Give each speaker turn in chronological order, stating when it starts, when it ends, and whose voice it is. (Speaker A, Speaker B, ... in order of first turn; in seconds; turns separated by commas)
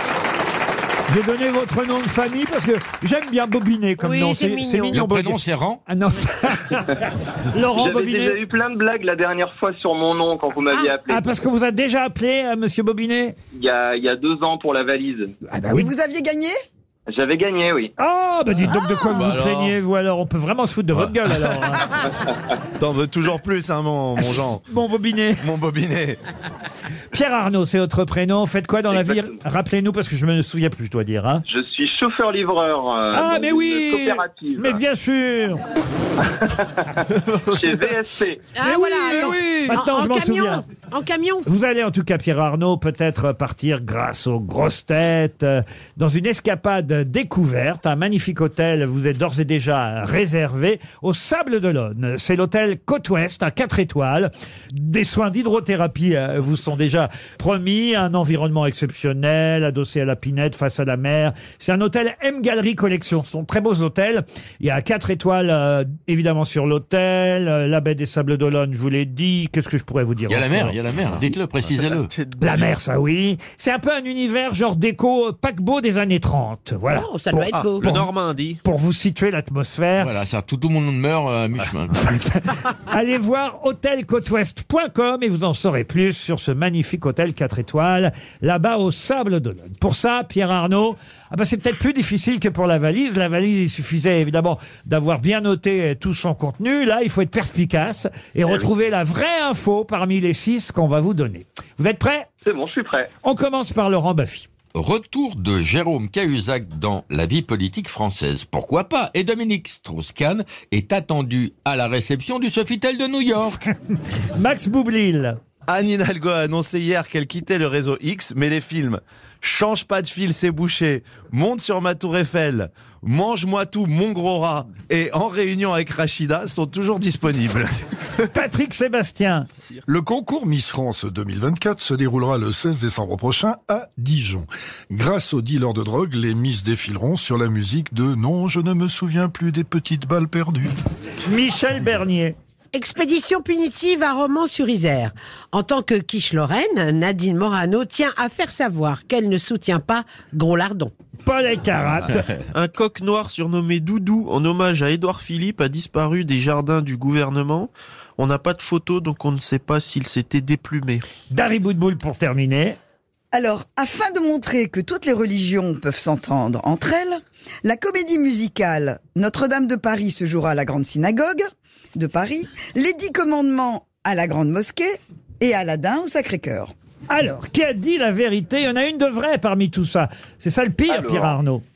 Speaker A: 1.1-8.4, Speaker B: 4.0-5.0, Speaker C: 4.9-5.8, Speaker D: 7.7-11.2, Speaker B: 10.7-11.0, Speaker A: 11.1-13.3, Speaker D: 13.5-15.3, Speaker A: 15.5-15.9, Speaker E: 15.7-16.5, Speaker D: 17.1-17.9, Speaker A: 18.0-22.0, Speaker C: 19.2-19.7, Speaker F: 22.8-24.6, Speaker A: 24.7-25.4, Speaker F: 25.4-26.2, Speaker A: 27.1-31.4, Speaker D: 28.9-29.4, Speaker D: 31.4-34.8, Speaker A: 33.1-35.6, Speaker D: 36.2-36.8, Speaker D: 37.6-38.4, Speaker B: 38.5-41.5, Speaker A: 38.6-40.6, Speaker A: 41.4-70.8, Speaker C: 70.3-72.1, Speaker G: 71.6-72.7, Speaker A: 72.4-78.1, Speaker B: 76.9-77.9, Speaker G: 77.5-78.6, Speaker A: 78.6-80.1, Speaker C: 80.0-82.2, Speaker A: 82.1-102.3, Speaker D: 102.4-103.1, Speaker A: 103.2-104.5, Speaker C: 104.7-113.6, Speaker A: 114.3-115.3, Speaker F: 115.7-127.7, Speaker A: 128.3-129.4, Speaker H: 129.9-140.8, Speaker A: 141.2-142.3, Speaker B: 142.7-150.9, Speaker A: 151.2-152.2, Speaker G: 152.5-161.0, Speaker A: 161.3-162.8, Speaker E: 163.3-176.7, Speaker A: 177.1-181.6, Speaker D: 180.9-181.3